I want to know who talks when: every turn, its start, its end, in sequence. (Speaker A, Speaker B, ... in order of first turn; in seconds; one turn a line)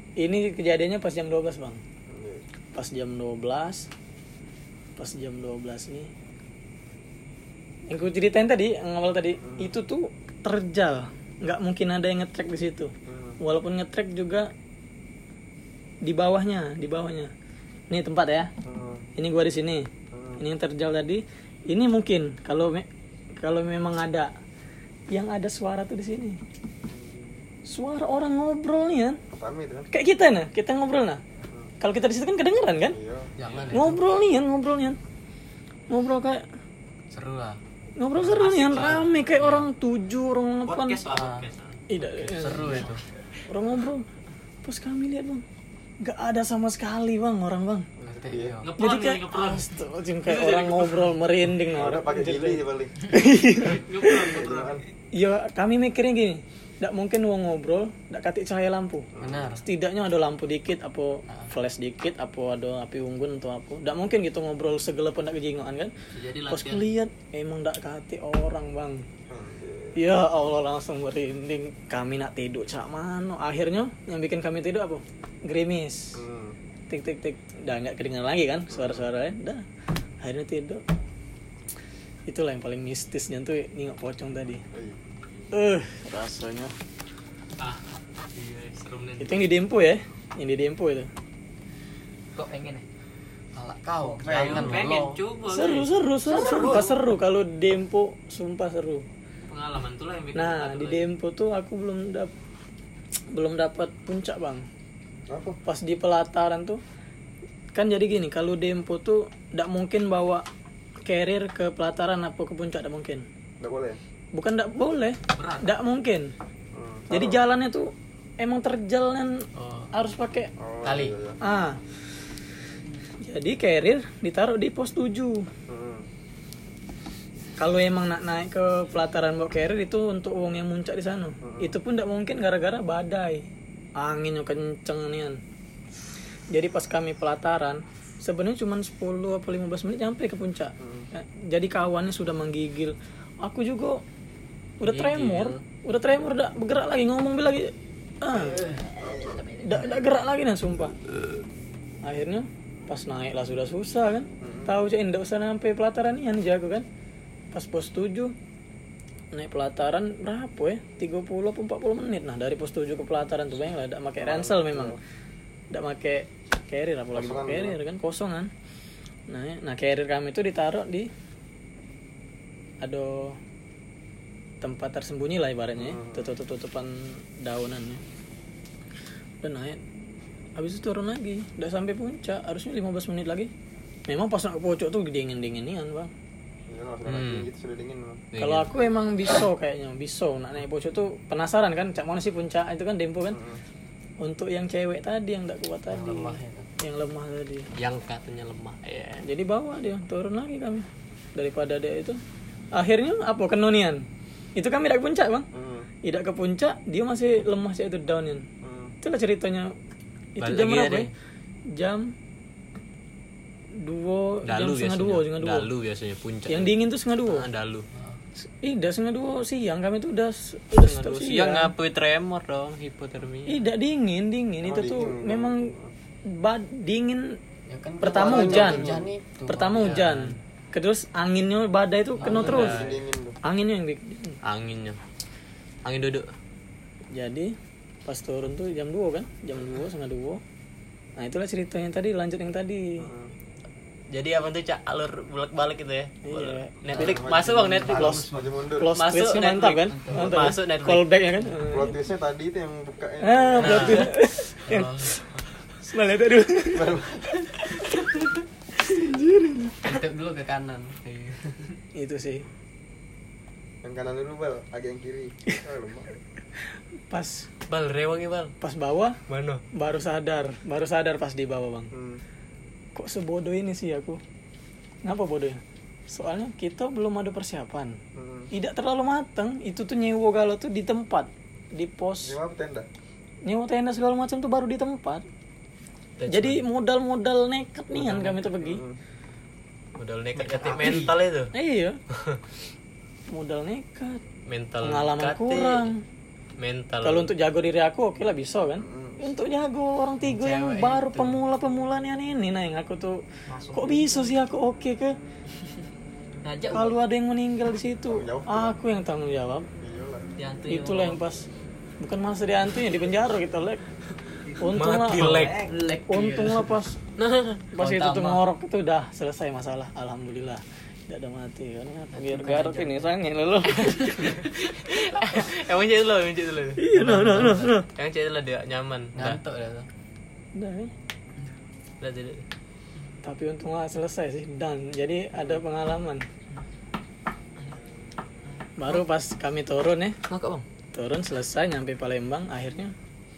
Speaker A: 0.2-1.8
Speaker B: 2.1-2.5
Speaker A: 2.7-3.9
Speaker A: 5.0-6.1
Speaker A: 7.9-14.5
Speaker B: 9.4-9.8
Speaker B: 13.1-13.4
Speaker A: 16.0-17.3
Speaker A: 17.9-18.5
Speaker B: 18.6-19.0
Speaker A: 19.2-22.9
Speaker B: 20.1-20.4
Speaker A: 23.4-24.3
Speaker A: 25.1-26.4
Speaker B: 26.9-27.4
Speaker A: 27.7-29.2
Speaker B: 29.3-29.9
Speaker A: 29.9-31.2
Speaker A: 31.8-33.0
Speaker B: 32.8-33.3
Speaker C: 33.4-34.0
Speaker D: 33.4-33.7
Speaker A: 33.7-35.0
Speaker A: 35.9-36.4
Speaker C: 37.1-37.6
Speaker A: 38.0-41.0
Speaker C: 38.2-39.7
Speaker D: 38.2-39.1
Speaker D: 40.7-41.8
Speaker C: 41.1-43.0
Speaker A: 41.9-42.9
Speaker A: 43.5-44.0
Speaker A: 44.6-45.4
Speaker A: 46.0-47.9
Speaker B: 48.0-48.7
Speaker C: 48.1-48.7
Speaker D: 48.6-49.7
Speaker A: 48.8-54.4
Speaker D: 50.3-51.1
Speaker B: 51.7-52.9
Speaker D: 53.6-54.8
Speaker B: 54.2-54.8
Speaker A: 55.2-59.1
Speaker B: 59.1-59.5
Speaker C: 59.2-59.6
Speaker A: 59.6-65.9
Speaker C: 66.2-66.6
Speaker D: 66.2-66.8
Speaker A: 66.5-69.1
Speaker B: 69.3-70.0
Speaker A: 70.0-76.2
Speaker B: 76.2-76.6
Speaker A: 76.9-79.6
Speaker B: 78.7-79.1
Speaker A: 80.2-80.8
Speaker A: 82.3-84.6
Speaker B: 84.7-85.0
Speaker A: 85.5-86.7
Speaker D: 87.6-89.5
Speaker A: 89.2-91.1
Speaker E: 92.3-92.8
Speaker C: 93.5-95.2
Speaker B: 94.2-94.8
Speaker D: 94.3-97.0
Speaker A: 95.5-99.1
Speaker D: 99.5-101.1
Speaker A: 100.3-102.3
Speaker A: 103.3-104.7
Speaker B: 105.3-105.6
Speaker A: 105.7-106.8
Speaker A: 107.8-110.4
Speaker A: 111.1-113.3
Speaker B: 113.6-114.0
Speaker A: 114.3-116.3
Speaker D: 115.3-115.7
Speaker B: 116.7-117.4
Speaker A: 117.1-120.5
Speaker C: 119.5-119.9
Speaker B: 120.6-121.4
Speaker C: 120.8-121.1
Speaker A: 121.4-121.8
Speaker A: 123.2-125.5
Speaker B: 125.7-126.1
Speaker A: 127.6-133.5
Speaker B: 131.4-131.8
Speaker A: 134.0-135.4
Speaker A: 136.5-144.0
Speaker B: 140.8-141.1
Speaker A: 144.8-148.7
Speaker C: 144.8-145.6
Speaker E: 148.6-149.7
Speaker A: 149.6-151.0
Speaker A: 152.0-156.9
Speaker B: 154.4-154.7
Speaker A: 157.5-158.3
Speaker A: 159.3-165.0
Speaker B: 164.2-165.0
Speaker A: 165.7-168.5
Speaker B: 167.1-167.8
Speaker A: 169.3-171.1
Speaker A: 172.8-173.4
Speaker A: 174.6-178.0
Speaker B: 175.8-176.3
Speaker A: 179.4-179.8
Speaker A: 180.6-183.5
Speaker A: 184.1-186.1
Speaker B: 186.7-188.3
Speaker D: 187.1-187.5
Speaker D: 188.3-188.7
Speaker A: 188.4-193.4
Speaker B: 193.3-193.6
Speaker A: 194.2-197.7
Speaker C: 195.9-196.7
Speaker D: 197.8-199.2
Speaker A: 199.2-202.2
Speaker A: 202.7-204.0
Speaker A: 204.6-205.5
Speaker B: 205.5-205.9
Speaker A: 206.1-208.5
Speaker B: 208.6-208.9
Speaker A: 209.0-209.7
Speaker A: 210.4-211.1
Speaker D: 210.4-211.1
Speaker A: 211.7-212.1
Speaker A: 213.8-215.7
Speaker D: 214.5-216.8
Speaker A: 216.5-217.5
Speaker D: 217.3-217.9
Speaker C: 217.9-218.2
Speaker A: 218.6-221.7
Speaker D: 220.8-223.6
Speaker A: 223.5-225.7
Speaker B: 224.6-225.9
Speaker A: 226.3-227.4
Speaker C: 227.7-230.4
Speaker A: 228.0-228.9
Speaker B: 228.0-229.1
Speaker A: 229.5-232.8
Speaker C: 232.2-233.0
Speaker B: 232.2-233.4
Speaker D: 232.3-232.9
Speaker A: 233.4-234.4
Speaker D: 234.4-235.0
Speaker D: 235.8-236.3
Speaker A: 237.1-237.5
Speaker A: 238.1-240.4
Speaker A: 241.2-243.0
Speaker B: 243.0-243.3
Speaker D: 244.1-248.2
Speaker A: 246.2-246.7
Speaker C: 246.9-248.5
Speaker B: 246.9-248.9
Speaker A: 247.9-252.0
Speaker D: 249.0-251.1
Speaker C: 249.6-250.5
Speaker B: 251.7-254.0
Speaker A: 253.2-255.1
Speaker D: 253.6-254.1
Speaker C: 254.6-255.4
Speaker A: 255.8-256.9
Speaker B: 256.7-257.5
Speaker A: 258.8-259.9
Speaker C: 259.8-261.8
Speaker A: 262.0-262.5
Speaker B: 263.8-266.2
Speaker A: 267.1-267.5
Speaker D: 267.7-268.6
Speaker A: 268.6-269.2
Speaker D: 269.3-269.6
Speaker A: 269.7-271.9
Speaker B: 271.9-272.2
Speaker A: 273.0-274.2
Speaker A: 275.0-278.0
Speaker B: 278.1-278.5
Speaker A: 278.5-282.4
Speaker B: 282.2-282.9
Speaker A: 283.4-285.2
Speaker D: 286.2-286.6
Speaker A: 286.3-288.8
Speaker B: 287.9-289.0
Speaker D: 290.0-291.5
Speaker C: 290.4-291.2
Speaker A: 291.5-292.0
Speaker D: 292.1-292.4
Speaker A: 293.3-294.2
Speaker D: 294.5-295.9
Speaker A: 294.8-296.0
Speaker D: 296.6-297.3
Speaker A: 297.0-303.2
Speaker B: 298.8-299.3
Speaker C: 300.2-301.4
Speaker E: 303.5-304.4
Speaker A: 303.7-305.2
Speaker E: 306.4-306.9
Speaker A: 306.7-309.7
Speaker B: 308.1-308.8
Speaker B: 309.8-310.3
Speaker E: 310.4-311.2
Speaker A: 310.7-311.5
Speaker A: 312.0-313.8
Speaker A: 314.6-315.5
Speaker D: 314.8-315.7
Speaker E: 315.1-316.2
Speaker C: 315.1-316.7
Speaker A: 316.1-317.0
Speaker D: 317.2-317.7
Speaker A: 317.7-324.4
Speaker E: 317.8-318.4
Speaker C: 322.1-323.1
Speaker D: 324.1-326.9
Speaker A: 326.8-327.9
Speaker C: 326.9-327.7
Speaker D: 327.9-329.4
Speaker C: 329.1-329.9
Speaker A: 330.6-330.9
Speaker D: 332.0-332.4
Speaker A: 333.2-336.3
Speaker B: 335.3-335.6
Speaker A: 338.8-340.2
Speaker D: 340.3-340.6
Speaker A: 340.9-342.9